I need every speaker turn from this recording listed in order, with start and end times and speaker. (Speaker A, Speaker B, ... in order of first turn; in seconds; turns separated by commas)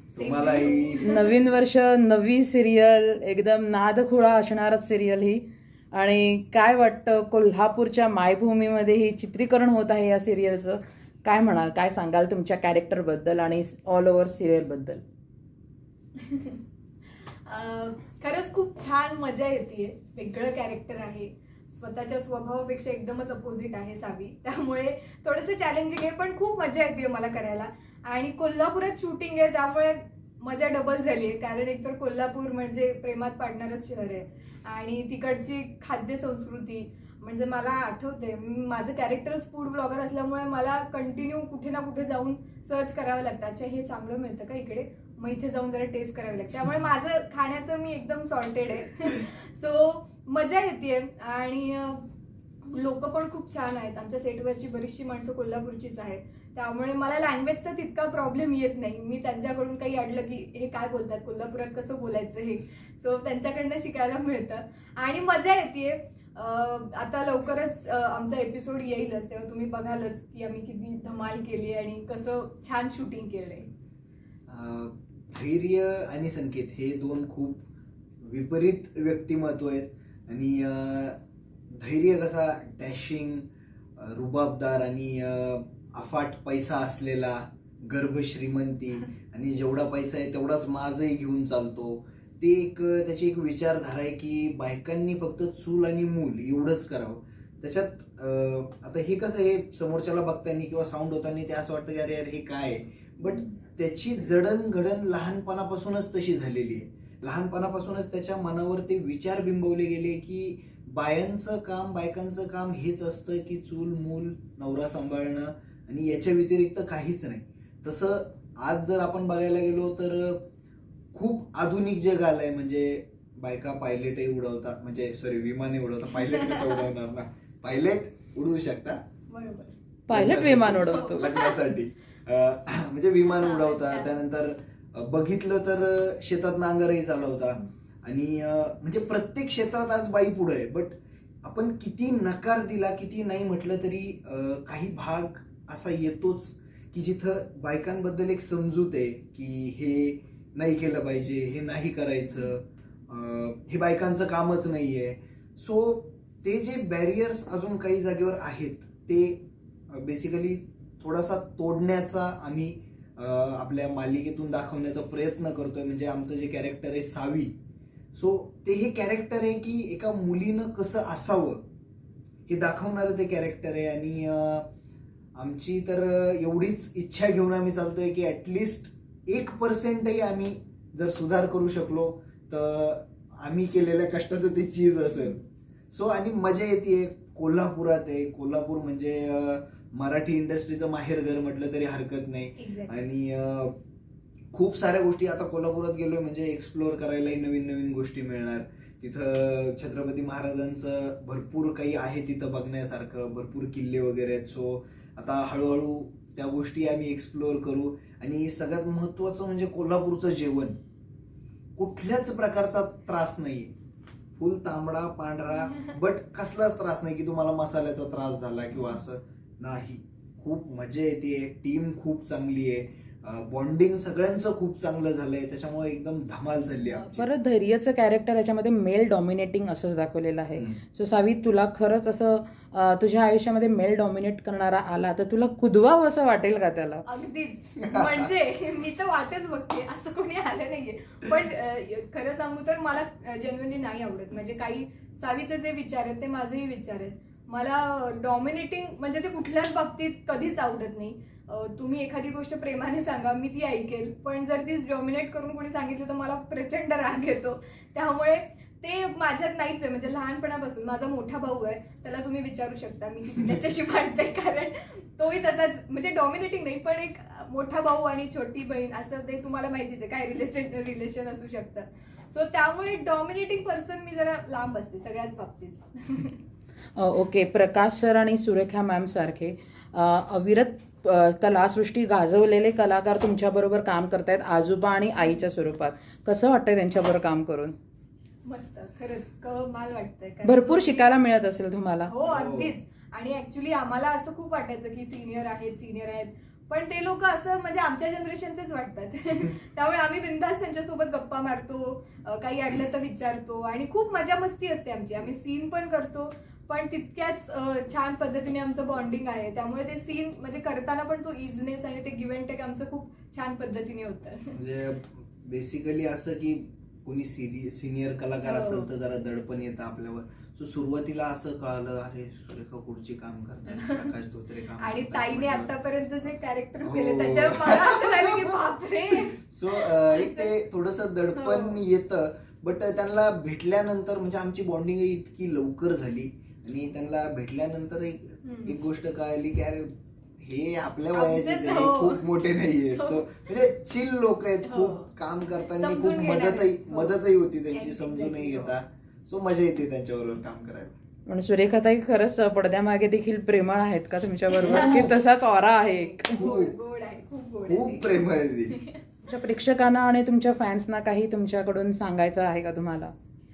Speaker A: 0.1-1.1, Speaker B: 0.1-1.4, Speaker C: 1.0-15.0, Speaker B: 16.2-16.6, Speaker B: 17.4-52.1, Speaker B: 52.6-73.7, Speaker A: 74.5-77.6, Speaker A: 78.2-81.2, Speaker A: 81.7-120.4, Speaker A: 121.1-129.0, Speaker B: 126.2-126.8, Speaker B: 129.3-129.7, Speaker C: 130.1-131.2, Speaker A: 130.1-167.5, Speaker B: 130.8-131.7, Speaker B: 133.3-134.1, Speaker A: 168.1-171.6, Speaker A: 172.5-174.7, Speaker A: 175.3-193.8, Speaker B: 192.6-192.9, Speaker A: 194.5-210.8, Speaker A: 211.8-213.7, Speaker A: 214.4-227.3, Speaker C: 227.1-237.0, Speaker B: 237.1-276.4, Speaker A: 237.8-238.3, Speaker C: 276.9-287.7, Speaker B: 288.4-291.1, Speaker C: 290.4-292.1, Speaker B: 292.1-314.6, Speaker A: 292.2-292.7, Speaker A: 314.6-325.7, Speaker B: 318.4-318.9, Speaker B: 323.7-324.1, Speaker B: 324.8-330.5, Speaker A: 326.8-328.6, Speaker A: 329.1-351.0, Speaker B: 331.4-331.8, Speaker B: 338.4-338.8, Speaker B: 341.1-342.3, Speaker B: 342.9-343.4, Speaker B: 344.6-345.1, Speaker B: 345.6-347.2, Speaker B: 347.7-348.7, Speaker C: 351.3-356.4, Speaker B: 354.5-355.2, Speaker B: 355.8-359.0, Speaker A: 356.4-356.7, Speaker A: 357.7-358.8, Speaker C: 359.3-363.1